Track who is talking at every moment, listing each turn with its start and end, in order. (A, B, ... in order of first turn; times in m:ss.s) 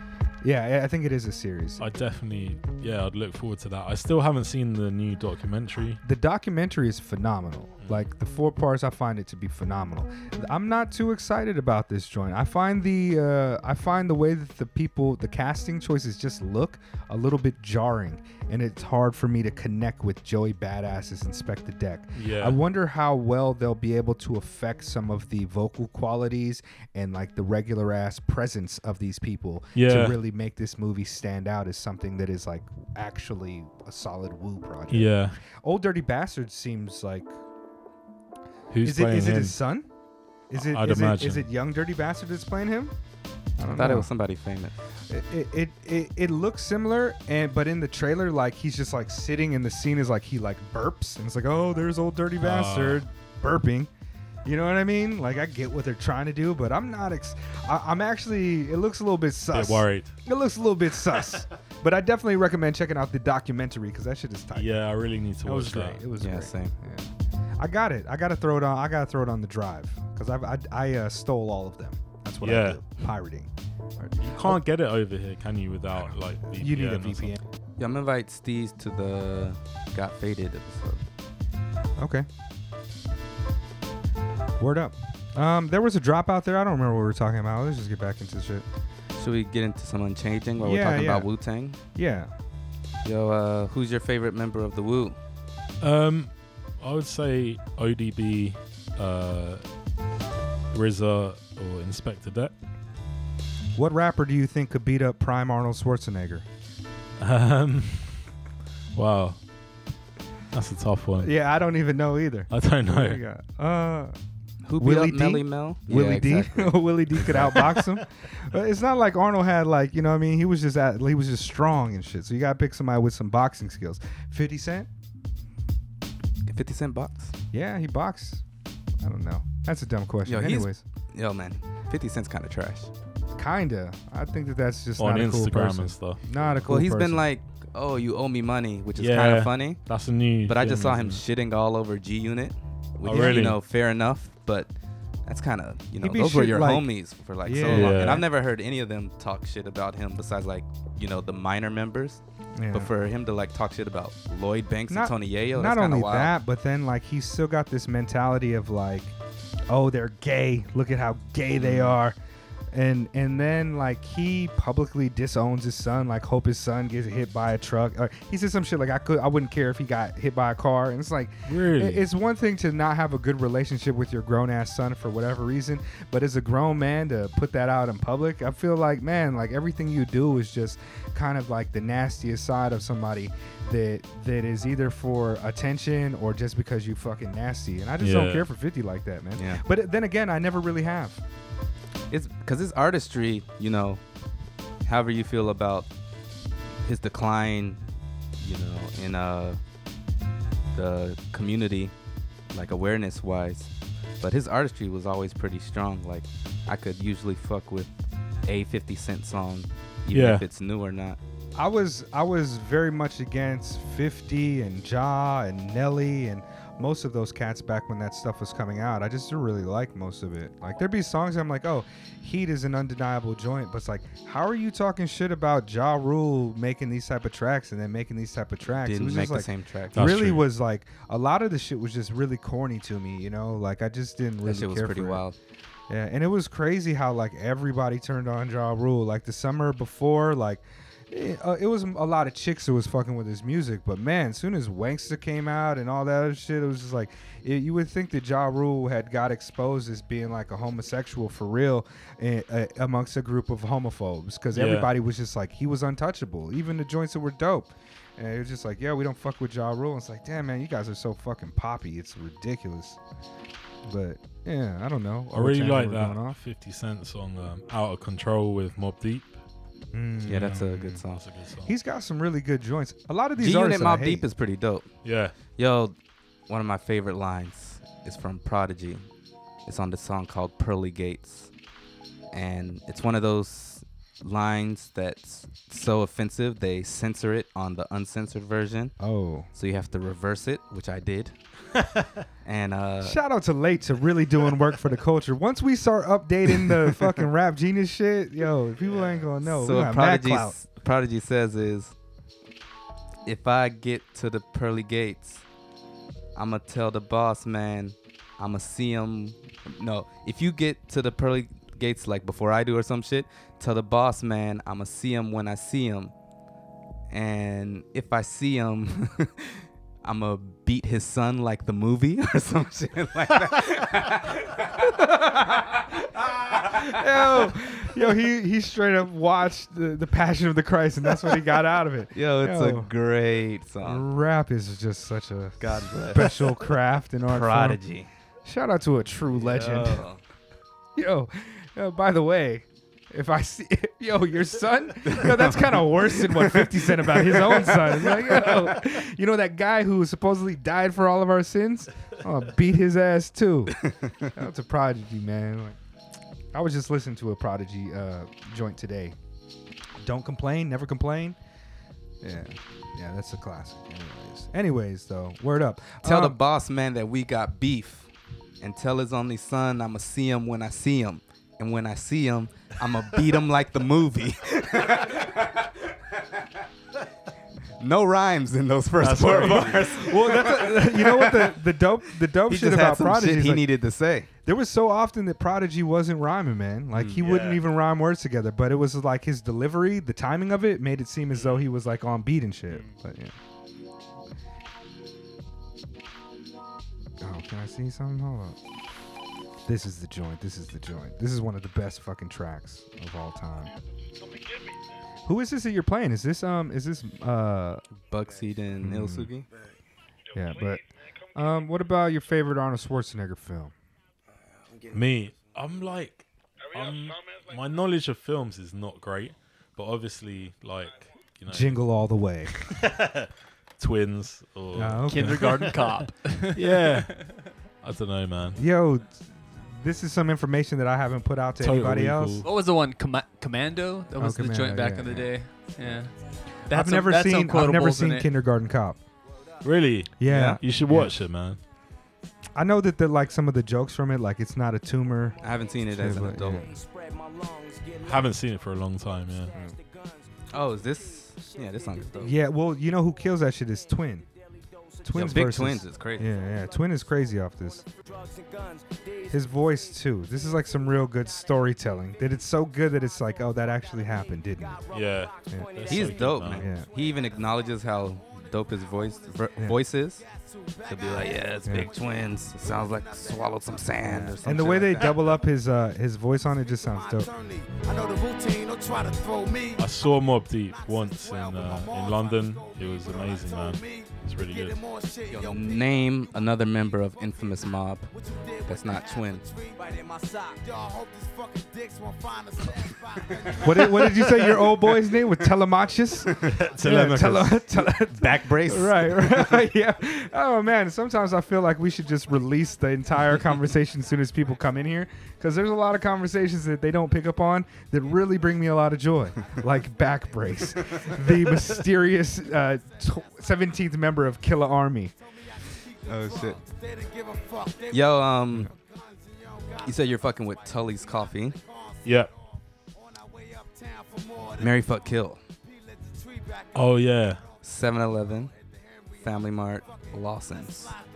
0:00.4-0:01.8 A
0:01.8-0:06.0 B
0:06.0-0:37.3 A
0:07.8-0:08.1 B
0:22.2-0:22.6 B
0:29.7-0:30.2 B
0:34.9-0:35.4 B
0:38.7-0:39.6 B
0:38.8-0:39.9 A
0:40.5-0:42.9 A
0:40.5-0:41.4 B
0:43.6-0:44.1 A
0:43.6-0:44.8 C
0:45.1-0:53.9 A
0:52.4-0:53.0 B
0:54.4-1:04.8 A
0:59.5-1:00.1 B
1:04.5-1:06.0 B
1:05.4-1:14.6 A
1:06.2-1:06.7 C
1:12.4-1:12.8 B
1:14.2-1:17.3 B
1:16.5-1:17.4 A
1:17.8-1:21.0 C
1:22.0-1:22.3 A
1:24.6-1:28.6 A
1:29.2-1:31.8 C
1:30.6-1:31.3 A
1:31.9-1:32.3 A
1:33.0-1:35.2 C
1:35.8-1:39.6 B
1:40.7-1:42.5 B
1:43.8-1:46.4 A
1:47.2-1:48.3 B
1:48.9-1:49.4 B
1:50.5-1:51.3 B
1:51.2-1:54.1 A
1:52.5-1:53.2 B
1:54.6-1:57.8 C
1:54.8-2:04.9 A
2:06.5-2:07.3 C
2:07.5-2:08.4 A
2:09.0-2:10.8 A
2:10.2-2:12.9 C
2:13.4-2:17.2 A
2:15.0-2:16.2 B
2:16.3-2:19.8 C
2:19.0-2:21.2 B
2:20.4-2:24.7 C
2:23.0-2:23.6 B
2:25.2-2:32.2 C
2:26.0-2:26.9 A
2:27.4-2:28.3 A
2:27.6-2:28.2 B
2:32.6-2:32.9 A
2:32.7-2:36.3 C
2:34.9-2:39.1 A
2:39.7-2:42.2 A
2:41.6-2:42.0 C
2:42.7-3:11.2 A
2:51.4-2:52.1 B
3:08.0-3:08.5 B
3:09.4-3:09.6 C
3:12.1-3:14.0 C
3:14.8-3:15.9 C
3:16.8-3:17.8 C
3:18.4-3:19.6 C
3:20.7-3:21.9 C
3:22.5-3:27.9 C
3:28.4-3:31.2 C
3:30.1-3:30.4 B
3:31.6-3:55.2 A
3:48.8-3:50.2 C
3:49.9-3:50.5 B
3:54.4-3:55.4 C
3:55.9-4:23.0 A
4:14.5-4:14.9 B
4:23.8-4:26.4 A
4:25.3-4:29.4 B
4:29.9-4:31.0 A
4:30.3-4:31.2 C
4:30.4-4:31.7 B
4:31.6-4:34.2 A
4:33.4-4:34.9 C
4:35.0-4:35.4 B
4:35.5-4:36.0 C
4:36.5-4:39.1 C
4:39.6-4:41.5 C
4:42.3-4:48.9 C
4:49.0-4:49.5 A
4:49.5-4:51.4 C
4:52.4-4:53.2 C
4:53.0-5:00.6 A
4:59.4-5:01.9 C
5:03.2-5:05.4 C
5:06.3-5:16.1 C
5:17.1-5:27.5 C
5:24.9-5:32.9 A
5:32.1-5:34.0 C
5:33.8-5:37.8 A
5:35.6-5:36.6 C
5:37.3-5:38.1 C
5:38.4-5:40.1 A
5:39.3-5:40.2 C
5:41.0-5:53.8 A
5:45.1-5:48.5 C
5:53.7-5:54.3 C
5:54.3-5:55.8 A
5:56.5-5:59.2 A
6:00.0-6:01.4 A
6:02.2-6:06.4 A
6:06.0-6:08.1 C
6:08.6-6:15.8 C
6:17.8-6:21.6 C
6:19.0-6:19.9 B
6:19.2-6:23.7 A
6:22.5-6:24.3 C
6:24.4-6:33.4 A
6:26.9-6:27.3 C
6:27.2-6:27.6 B
6:37.2-6:38.6 A
6:39.6-6:43.8 A
6:45.2-6:47.8 A
6:48.1-6:49.5 C
6:48.8-6:49.3 A
6:50.3-6:53.7 A
6:54.9-7:01.8 B
7:01.5-7:02.6 A
7:02.6-7:05.9 B
7:04.7-7:05.7 A
7:05.1-7:07.4 D
7:06.5-7:08.6 B
7:08.6-7:12.4 A
7:11.6-7:12.5 B
7:12.4-7:16.1 D
7:14.2-7:15.3 A
7:16.6-7:18.3 D
7:16.7-7:19.0 A
7:19.6-7:21.6 B
7:20.2-7:21.2 A
7:20.3-7:20.6 C
7:22.6-7:26.7 A
7:25.4-7:26.7 C
7:26.8-7:28.2 E
7:28.0-7:29.5 B
7:30.5-7:32.3 C
7:32.2-7:34.3 A
7:35.0-7:37.8 A
7:35.1-7:36.3 C
7:38.2-7:39.0 E
7:39.3-7:44.8 A
7:44.9-7:46.6 B
7:45.9-7:50.2 C
7:46.6-7:46.9 A
7:50.8-7:55.3 C
7:51.6-7:51.9 A
7:54.1-7:57.3 A
7:57.5-7:59.7 E
7:59.8-8:04.8 B
8:01.8-8:02.0 E
8:04.5-8:05.2 E
8:05.3-8:08.1 C
8:08.6-8:09.5 C
8:09.7-8:12.8 E
8:13.5-8:14.6 C
8:13.6-8:35.1 A
8:16.3-8:16.5 C
8:16.4-8:17.6 B
8:17.8-8:19.6 C
8:36.1-8:36.6 C
8:37.9-8:38.7 C
8:39.8-8:41.6 C
8:42.0-8:42.3 B
8:44.6-8:45.4 C
8:46.7-8:47.4 B
8:47.6-8:48.5 C
8:49.2-8:51.0 C